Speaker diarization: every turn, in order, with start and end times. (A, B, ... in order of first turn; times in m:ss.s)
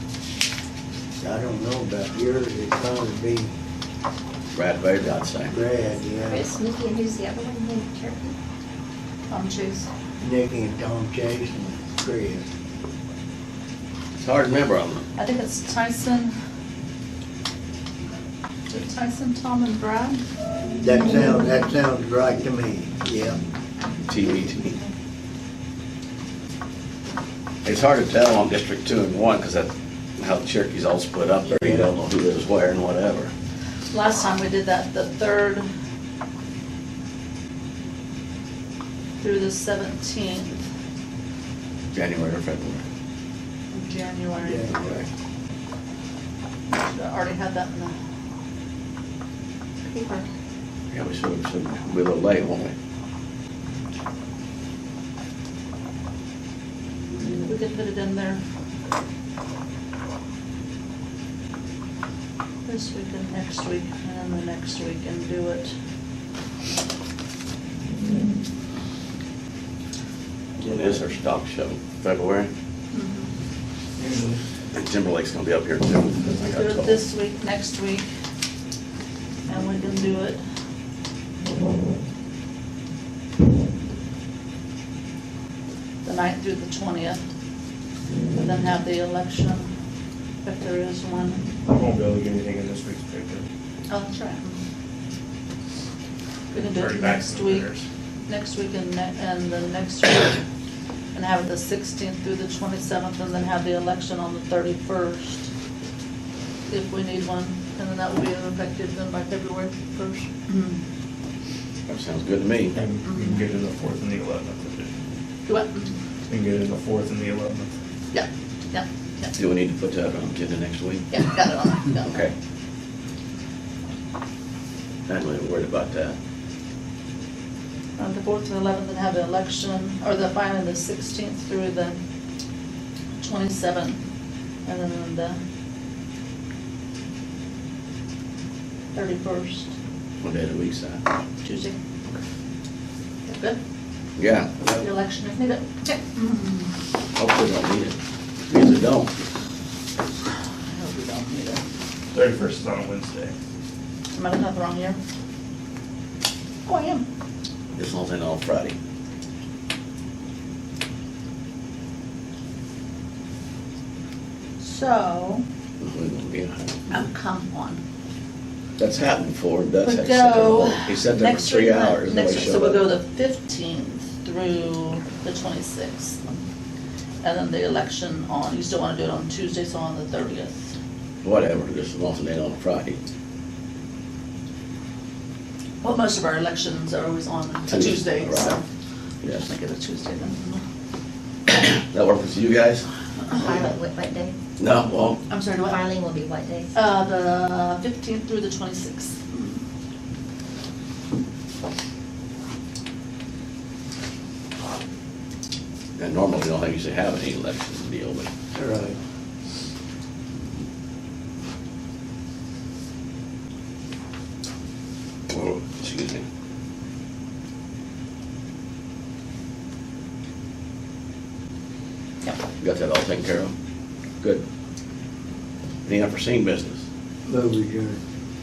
0:01.2-0:03.5 A
0:04.5-0:05.6 B
0:05.5-0:06.5 A
0:06.3-0:08.4 C
0:09.3-0:09.9 D
0:10.2-0:12.4 A
0:14.2-0:15.1 B
0:15.2-0:16.3 D
0:18.7-0:20.2 D
0:20.8-0:23.4 A
0:24.1-0:24.8 B
0:27.6-0:33.3 B
0:31.5-0:31.9 A
0:33.9-0:35.7 D
0:39.2-0:40.6 D
0:41.9-0:42.8 B
0:43.7-0:44.8 D
0:44.4-0:45.0 A
0:46.7-0:47.9 D
0:49.9-0:50.3 D
0:50.9-0:52.7 B
0:57.4-0:58.4 D
1:02.6-1:05.7 D
1:10.6-1:12.5 B
1:12.9-1:13.3 D
1:14.0-1:14.3 E
1:14.7-1:17.0 B
1:16.4-1:18.1 D
1:19.5-1:20.4 D
1:26.0-1:27.2 D
1:28.4-1:29.7 D
1:30.4-1:31.4 D
1:31.7-1:33.5 E
1:33.9-1:34.6 D
1:36.5-1:37.7 D
1:36.5-1:37.9 E
1:38.3-1:40.4 D
1:41.1-1:45.5 D
1:46.7-1:50.8 D
1:51.9-1:52.8 B
1:52.7-1:54.9 E
1:53.0-1:53.4 D
1:55.5-1:56.0 D
1:56.3-1:57.7 E
1:58.1-1:59.3 D
1:59.4-2:01.2 B
2:01.1-2:02.3 D
2:02.0-2:02.3 B
2:05.1-2:06.2 B
2:08.0-2:12.0 D
2:13.2-2:14.0 D
2:14.6-2:15.4 D
2:18.9-2:19.7 D
2:20.2-2:21.0 B
2:21.4-2:21.8 D
2:23.2-2:23.6 D
2:24.2-2:24.6 B
2:24.7-2:26.7 D
2:27.2-2:28.0 B
2:28.5-2:29.1 B
2:30.7-2:31.6 D
2:32.1-2:33.3 E
2:34.1-2:35.0 D
2:36.7-2:37.1 D
2:37.8-2:38.8 B
2:44.6-2:45.4 D
2:45.8-2:46.9 B
2:46.9-2:47.8 D
2:48.8-2:52.8 B
2:49.8-2:56.4 D
2:57.2-3:00.7 D
3:01.2-3:03.0 B
3:05.8-3:08.6 D
3:07.7-3:08.6 B
3:09.2-3:09.5 B
3:09.3-3:10.6 D
3:11.5-3:12.9 B
3:13.3-3:14.4 C
3:14.6-3:15.2 B
3:15.3-3:15.8 D
3:15.7-3:16.7 C
3:16.7-3:19.6 D
3:26.0-3:28.3 B
3:28.5-3:29.0 A
3:35.3-3:36.2 B
3:42.6-3:43.5 B
3:45.9-3:46.8 B
3:47.3-3:48.0 A